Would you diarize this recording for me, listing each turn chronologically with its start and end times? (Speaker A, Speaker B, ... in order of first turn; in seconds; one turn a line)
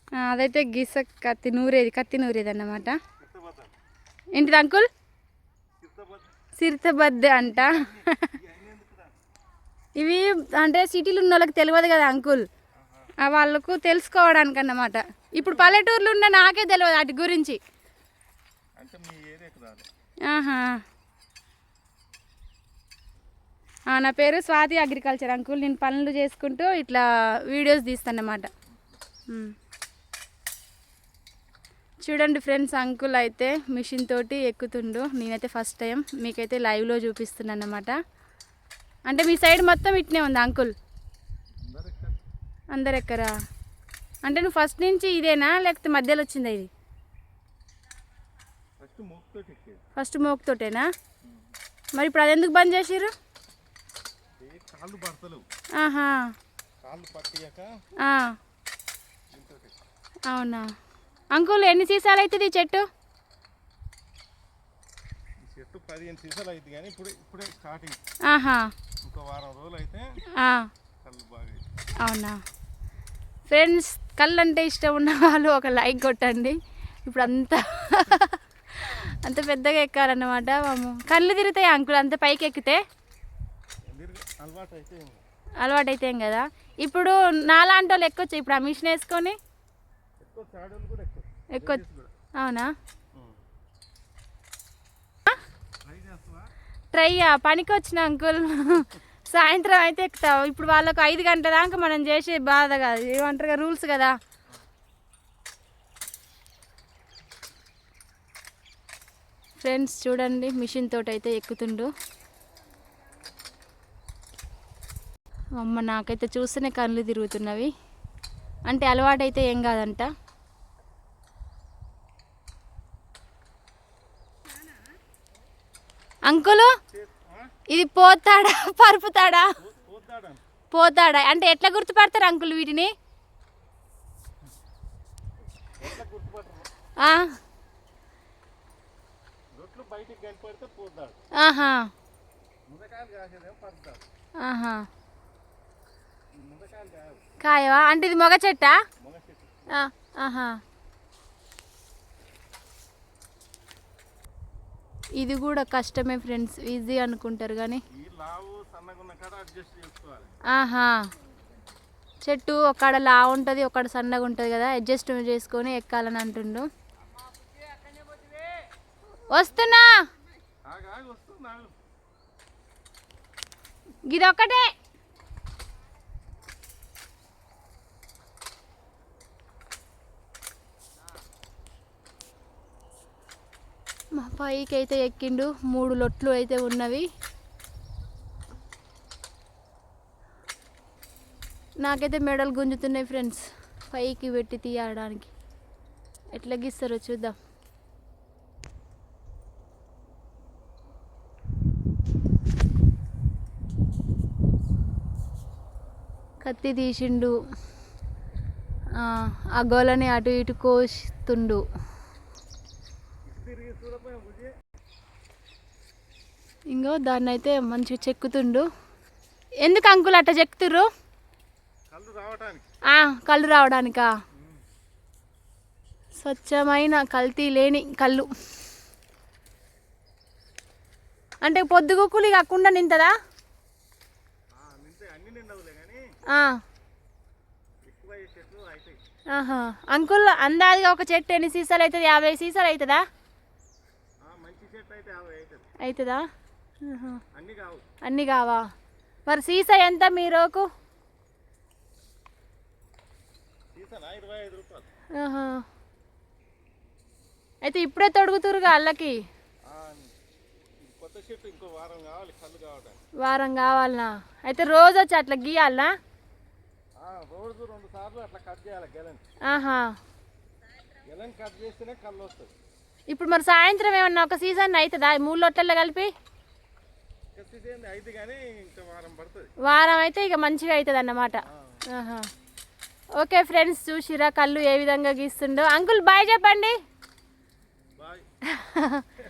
Speaker A: 0.1-3.0
Speaker B: 3.2-3.7
Speaker A: 4.3-4.9
Speaker B: 5.8-6.3
Speaker A: 6.6-8.3
Speaker B: 7.6-9.1
Speaker A: 10.0-12.5
Speaker B: 12.8-13.1
Speaker A: 13.2-17.6
Speaker B: 15.4-15.8
Speaker B: 18.8-19.9
Speaker A: 20.3-20.8
Speaker A: 23.9-28.5
Speaker A: 32.0-37.9
Speaker A: 39.1-40.7
Speaker B: 41.7-42.2
Speaker A: 42.7-43.3
Speaker A: 44.2-46.7
Speaker B: 48.8-49.8
Speaker A: 50.0-50.9
Speaker A: 52.0-53.1
Speaker B: 54.4-55.4
Speaker A: 55.8-56.2
Speaker B: 56.8-57.7
Speaker A: 58.0-58.3
Speaker B: 59.3-59.8
Speaker A: 60.3-60.7
Speaker A: 61.3-62.8
Speaker B: 65.4-68.0
Speaker A: 68.3-68.7
Speaker B: 69.0-70.0
Speaker A: 70.4-70.7
Speaker B: 71.0-71.6
Speaker A: 72.0-72.4
Speaker A: 73.5-76.5
Speaker A: 77.1-82.8
Speaker B: 83.9-85.2
Speaker A: 85.6-89.4
Speaker B: 90.2-92.1
Speaker A: 91.5-91.8
Speaker A: 92.4-92.7
Speaker B: 95.8-96.5
Speaker A: 96.9-104.1
Speaker A: 109.6-111.9
Speaker A: 115.6-117.7
Speaker A: 118.7-120.1
Speaker A: 126.3-126.7
Speaker B: 126.9-127.5
Speaker A: 127.7-129.5
Speaker B: 129.6-130.4
Speaker A: 130.7-132.9
Speaker B: 135.8-136.7
Speaker A: 137.0-137.3
Speaker B: 139.5-141.2
Speaker A: 141.4-141.9
Speaker B: 142.7-144.0
Speaker A: 144.4-144.8
Speaker B: 146.4-147.2
Speaker A: 147.4-148.8
Speaker B: 149.0-149.7
Speaker A: 149.7-150.5
Speaker A: 155.2-157.8
Speaker B: 157.9-160.3
Speaker A: 160.5-160.9
Speaker A: 162.2-166.7
Speaker A: 169.3-169.9
Speaker B: 170.7-171.7
Speaker A: 174.1-174.7
Speaker A: 184.1-187.1
Speaker A: 191.8-195.3
Speaker A: 196.3-197.3
Speaker A: 206.4-207.3
Speaker A: 208.9-211.6
Speaker B: 213.2-214.5
Speaker A: 216.7-218.7
Speaker A: 219.6-220.9
Speaker B: 221.9-222.7
Speaker A: 222.9-224.1
Speaker B: 224.3-224.6
Speaker A: 226.2-228.3
Speaker A: 231.4-233.1
Speaker B: 234.5-236.0
Speaker B: 237.8-239.0
Speaker A: 239.3-243.0
Speaker B: 244.2-245.7
Speaker A: 245.8-246.2
Speaker A: 246.9-247.2
Speaker B: 247.3-247.8
Speaker A: 248.0-248.6
Speaker A: 249.3-250.7
Speaker B: 253.7-254.9
Speaker A: 255.2-255.6
Speaker A: 257.6-259.2
Speaker B: 259.7-260.1
Speaker B: 260.8-263.0
Speaker A: 263.2-265.9
Speaker B: 267.0-269.2
Speaker A: 269.5-269.9
Speaker B: 271.1-272.5
Speaker A: 273.1-276.1
Speaker B: 277.3-279.5
Speaker A: 279.6-282.3
Speaker B: 281.4-281.8
Speaker A: 283.2-286.8
Speaker B: 288.0-288.2
Speaker A: 288.6-289.0